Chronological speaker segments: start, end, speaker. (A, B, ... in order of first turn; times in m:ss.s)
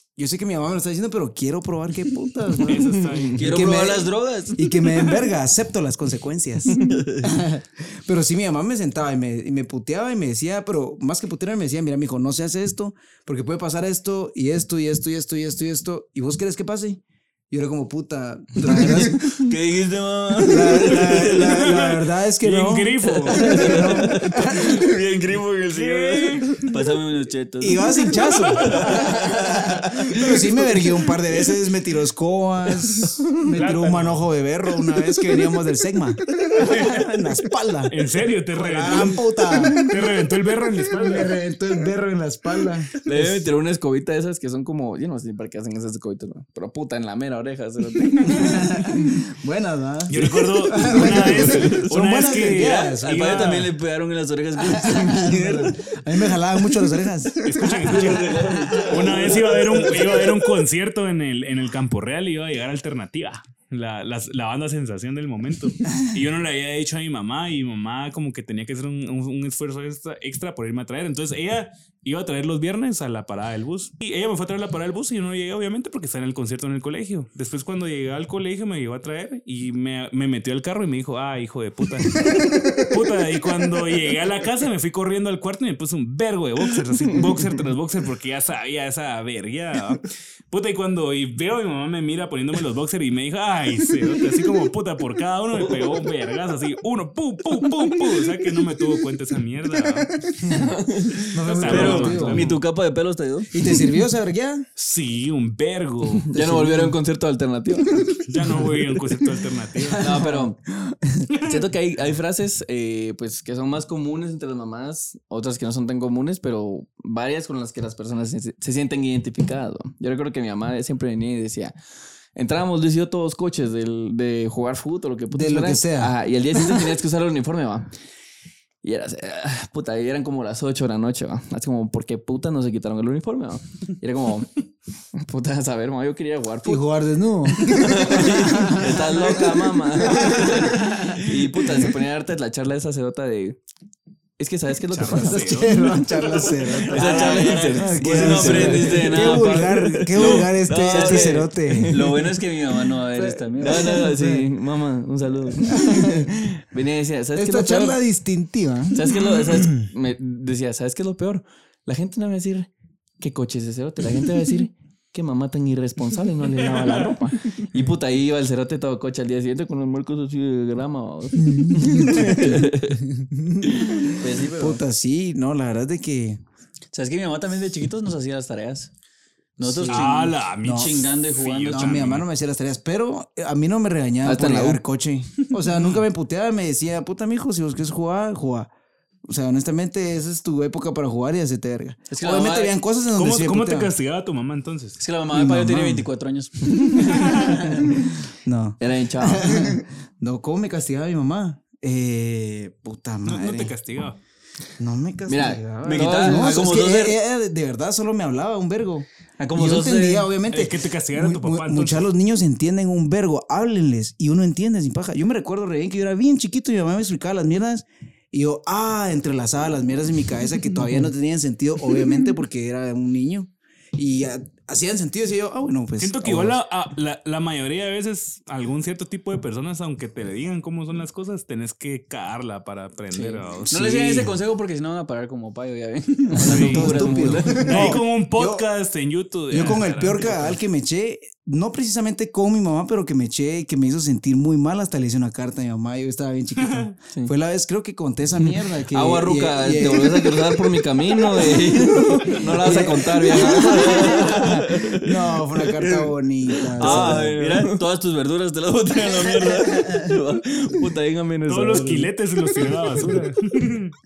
0:00.2-0:19.4 A
0:02.6-0:03.6 B
0:03.1-0:05.2 C
0:03.4-0:04.6 D
0:06.7-0:07.3 C
0:18.6-0:21.7 C
0:19.5-0:20.7 D
0:20.5-0:24.8 A
0:21.0-0:24.1 B
0:23.1-0:26.8 C
0:25.7-0:26.7 B
0:26.7-0:28.0 D
0:27.6-0:29.1 A
0:28.2-0:31.0 C
0:29.8-0:38.0 A
0:33.5-0:34.3 B
0:36.6-0:36.9 B
0:37.9-0:41.3 B
0:38.5-0:39.9 A
0:40.8-0:43.4 A
0:43.0-0:49.2 C
0:48.2-0:53.7 A
0:50.1-0:53.7 B
0:50.2-0:51.9 C
0:52.6-0:55.4 C
0:53.1-0:53.9 D
0:54.5-0:55.7 D
0:54.6-0:59.2 A
0:57.4-1:40.3 B
0:57.6-1:00.5 C
1:35.6-1:35.9 C
1:40.4-1:40.8 A
1:40.5-1:43.5 C
1:41.3-1:42.6 A
1:41.3-1:42.6 B
1:41.7-1:43.5 D
1:43.5-1:44.7 A
1:44.8-1:46.3 B
1:46.3-1:48.2 C
1:46.3-1:47.0 A
1:48.3-1:50.2 B
1:49.8-1:51.3 A
1:50.0-1:50.6 C
1:51.3-2:01.7 C
2:02.4-2:07.9 C
2:05.3-2:06.1 A
2:08.8-2:14.6 C
2:15.1-2:16.8 C
2:16.6-2:21.3 A
2:17.5-2:23.6 C
2:24.4-2:32.5 C
2:24.9-2:28.8 B
2:25.1-2:32.2 A
2:26.9-2:29.8 D
2:30.8-2:34.1 D
2:33.2-2:34.5 A
2:33.6-2:38.0 C
2:35.7-2:36.5 A
2:37.4-2:39.9 A
2:38.9-2:42.7 C
2:43.2-2:53.0 C
2:51.4-2:56.4 A
2:53.8-2:54.1 C
2:54.2-2:54.8 D
2:56.9-2:58.9 D
2:59.6-3:02.0 D
2:59.6-3:00.1 C
2:59.9-3:02.3 B
3:00.6-3:01.1 A
3:01.7-3:08.7 A
3:04.2-3:04.8 C
3:05.6-3:06.0 B
3:09.2-3:13.9 A
3:12.1-3:12.8 D
3:13.2-3:15.0 B
3:15.0-3:17.4 D
3:15.3-3:16.1 A
3:17.1-3:17.6 B
3:17.3-3:23.7 A
3:18.8-3:19.8 C
3:23.3-3:24.2 B
3:24.8-3:46.6 A
3:25.3-3:27.1 C
3:25.8-3:27.1 D
3:29.4-3:30.3 D
3:30.5-3:32.1 B
3:46.0-3:53.9 B
3:53.1-3:58.0 D
3:53.7-3:54.3 A
3:56.4-3:58.7 A
3:56.4-3:56.9 B
3:56.8-3:57.9 C
3:57.6-4:00.6 B
3:59.5-4:17.4 A
4:06.6-4:07.0 B
4:08.4-4:22.1 C
4:16.8-4:17.8 D
4:16.8-4:17.1 B
4:19.5-4:19.8 A
4:21.5-4:24.0 B